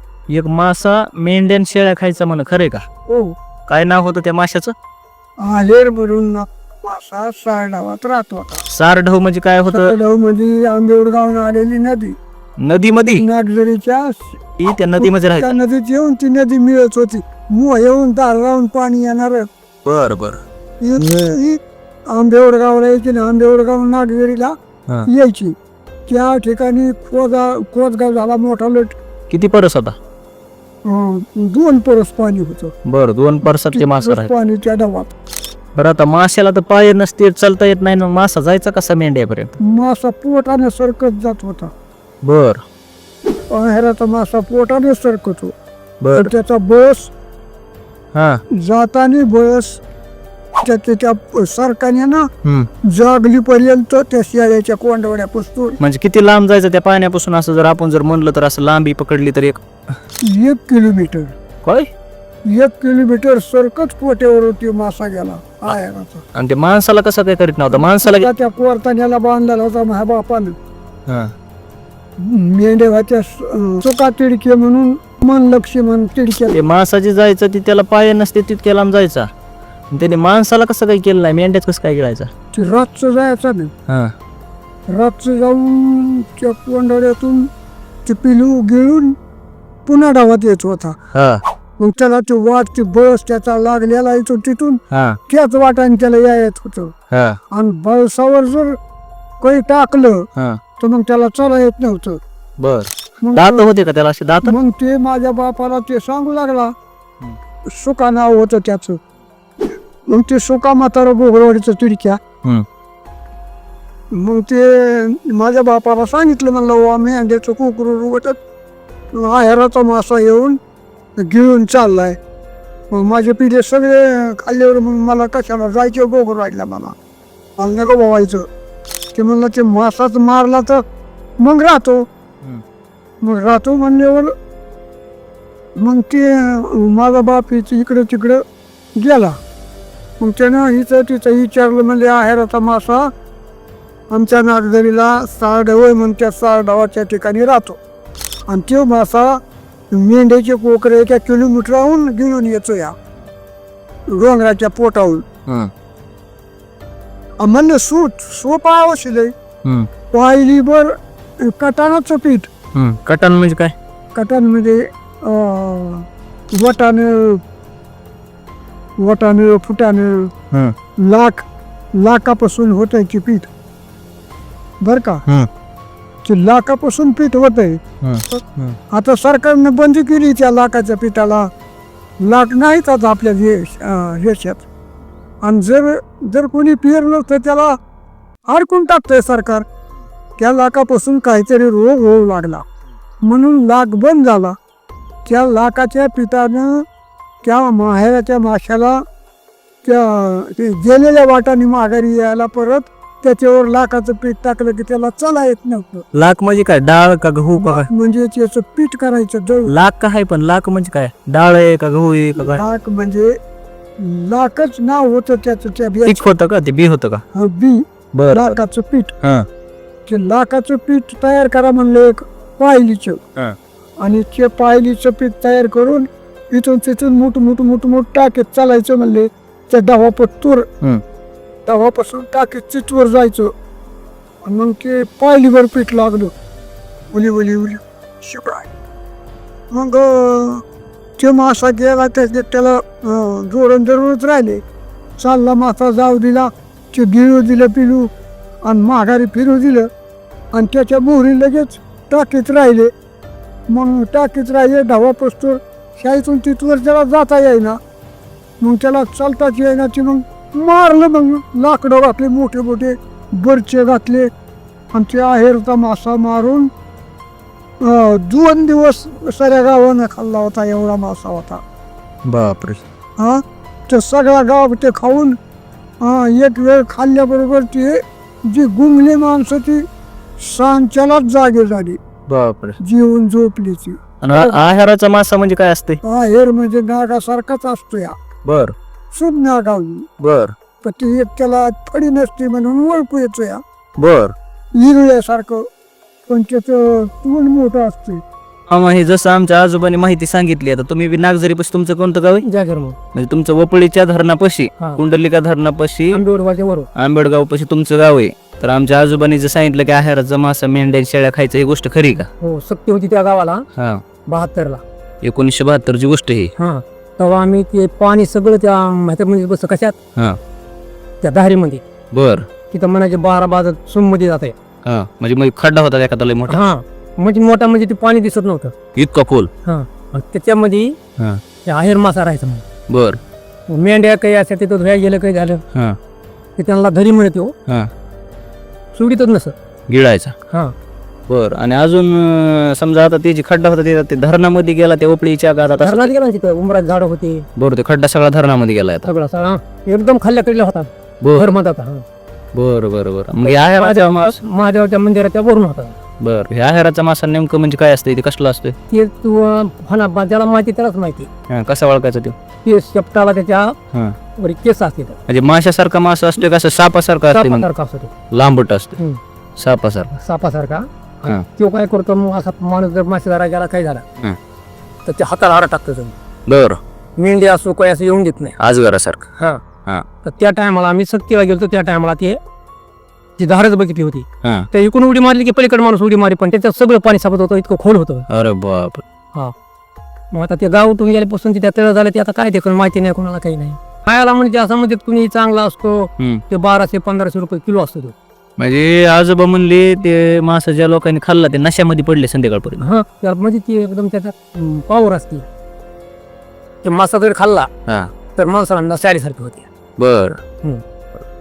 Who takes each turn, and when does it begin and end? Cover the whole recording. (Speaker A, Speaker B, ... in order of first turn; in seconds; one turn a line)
Speaker A: 0.3-2.8
Speaker B: 3.1-3.3
Speaker A: 3.7-4.7
Speaker B: 5.4-8.6
Speaker A: 8.7-9.9
Speaker B: 9.7-12.2
Speaker A: 12.6-13.2
Speaker B: 13.2-14.4
Speaker A: 14.6-15.5
Speaker B: 15.0-19.4
Speaker A: 19.8-20.4
Speaker B: 20.8-24.5
Speaker B: 25.1-25.5
Speaker B: 26.1-29.0
Speaker A: 29.3-29.9
Speaker B: 30.9-32.7
Speaker A: 32.9-34.3
Speaker B: 33.7-35.1
Speaker A: 35.8-39.6
Speaker B: 39.6-41.7
Speaker A: 42.2-42.6
Speaker B: 43.5-45.5
Speaker A: 46.0-46.3
Speaker B: 46.1-47.1
Speaker A: 48.1-48.4
Speaker B: 48.5-49.8
Speaker B: 50.6-52.3
Speaker A: 52.4-52.7
Speaker B: 52.9-55.8
Speaker A: 55.8-59.6
Speaker B: 60.2-61.3
Speaker A: 61.6-61.9
Speaker B: 62.5-66.2
Speaker A: 66.3-68.3
Speaker B: 67.7-70.5
Speaker A: 71.1-71.3
Speaker B: 72.2-76.5
Speaker A: 76.5-79.3
Speaker A: 79.9-82.3
Speaker B: 82.5-83.7
Speaker A: 83.9-84.1
Speaker B: 84.9-87.5
Speaker B: 88.0-89.2
Speaker B: 89.8-91.0
Speaker A: 91.1-91.4
Speaker B: 91.8-96.9
Speaker A: 94.9-95.2
Speaker A: 97.1-97.4
Speaker B: 97.5-98.7
Speaker B: 99.4-100.2
Speaker B: 100.8-102.2
Speaker A: 102.6-104.5
Speaker B: 103.2-103.6
Speaker B: 104.4-106.7
Speaker B: 107.7-109.0
Speaker B: 110.1-112.2
Speaker B: 114.1-118.4
Speaker B: 119.1-120.6
Speaker B: 121.2-122.2
Speaker B: 122.9-127.0
Speaker B: 127.6-128.4
Speaker B: 129.1-130.8
Speaker B: 131.4-132.0
Speaker B: 133.2-134.3
Speaker B: 135.8-138.4
Speaker B: 139.0-139.4
Speaker B: 140.2-143.1
Speaker B: 144.1-147.8
Speaker B: 148.5-152.9
Speaker B: 154.1-155.2
Speaker B: 157.4-159.3
Speaker B: 160.1-162.5
Speaker A: 162.8-163.7
Speaker B: 164.1-167.4
Speaker B: 169.0-170.3
Speaker B: 171.0-171.4
Speaker B: 172.0-173.5
Speaker B: 174.8-175.2
Speaker B: 176.2-177.8
Speaker A: 178.0-178.8
Speaker B: 178.9-181.5
Speaker B: 182.2-184.6
Speaker B: 185.4-187.8
Speaker B: 188.5-189.6
Speaker B: 190.4-192.6
Speaker B: 193.2-194.6
Speaker B: 195.2-196.8
Speaker B: 197.4-199.0
Speaker B: 199.8-206.0
Speaker A: 206.1-207.9
Speaker B: 207.6-209.7
Speaker A: 209.7-212.6
Speaker B: 212.4-213.3
Speaker B: 214.0-216.2
Speaker A: 216.0-217.2
Speaker B: 217.3-219.1
Speaker A: 218.1-218.4
Speaker A: 219.2-219.5
Speaker B: 220.1-223.2
Speaker B: 224.0-230.7
Speaker B: 231.7-233.5
Speaker B: 234.4-236.3
Speaker B: 237.1-238.7
Speaker B: 239.7-240.6
Speaker B: 241.2-244.6
Speaker B: 245.2-248.1
Speaker B: 248.6-249.9
Speaker B: 250.5-252.9
Speaker B: 253.7-257.8
Speaker B: 258.6-264.3
Speaker B: 264.9-266.7
Speaker B: 267.8-271.6
Speaker A: 272.2-272.8
Speaker B: 273.2-275.4
Speaker B: 276.0-279.8
Speaker B: 280.4-282.0
Speaker A: 282.3-282.8
Speaker B: 282.8-284.5
Speaker A: 284.2-286.0
Speaker B: 286.0-288.1
Speaker A: 288.4-288.7
Speaker B: 289.1-290.1
Speaker A: 290.2-290.5
Speaker B: 290.8-293.6
Speaker A: 294.0-294.3
Speaker B: 294.8-295.6
Speaker B: 296.3-298.2
Speaker A: 298.7-302.4
Speaker C: 302.4-302.9
Speaker A: 303.1-306.2
Speaker C: 306.1-306.9
Speaker A: 306.9-312.3
Speaker C: 312.4-313.6
Speaker A: 313.8-314.0
Speaker C: 314.3-314.8
Speaker A: 315.2-316.5
Speaker C: 316.6-319.9
Speaker C: 321.2-321.8
Speaker A: 322.1-322.5
Speaker C: 322.7-324.6
Speaker A: 324.8-326.6
Speaker C: 326.5-328.7
Speaker A: 328.9-329.5
Speaker C: 329.6-330.9
Speaker C: 331.6-332.6
Speaker A: 332.9-333.2
Speaker C: 333.7-335.6
Speaker C: 336.6-337.5
Speaker C: 338.9-339.6
Speaker A: 339.9-340.3
Speaker A: 341.3-346.0
Speaker C: 345.8-347.5
Speaker A: 347.6-349.1
Speaker C: 349.1-352.0
Speaker A: 351.2-351.5
Speaker A: 352.6-354.4
Speaker C: 353.4-355.9
Speaker A: 356.2-358.8
Speaker C: 358.9-361.3
Speaker A: 361.5-362.3
Speaker C: 362.6-363.8
Speaker C: 364.4-365.2
Speaker A: 365.3-367.7
Speaker C: 367.3-368.1
Speaker A: 368.3-369.0
Speaker A: 369.6-370.1
Speaker C: 370.1-374.0
Speaker C: 375.1-376.1
Speaker A: 376.5-376.8
Speaker C: 377.2-378.6
Speaker A: 378.6-379.2
Speaker C: 380.2-382.4
Speaker C: 383.4-388.2
Speaker A: 384.4-384.7
Speaker A: 388.3-389.0
Speaker C: 390.3-398.1
Speaker A: 398.6-402.8
Speaker C: 402.8-405.4
Speaker C: 406.8-407.7
Speaker C: 408.4-409.6
Speaker A: 410.0-410.4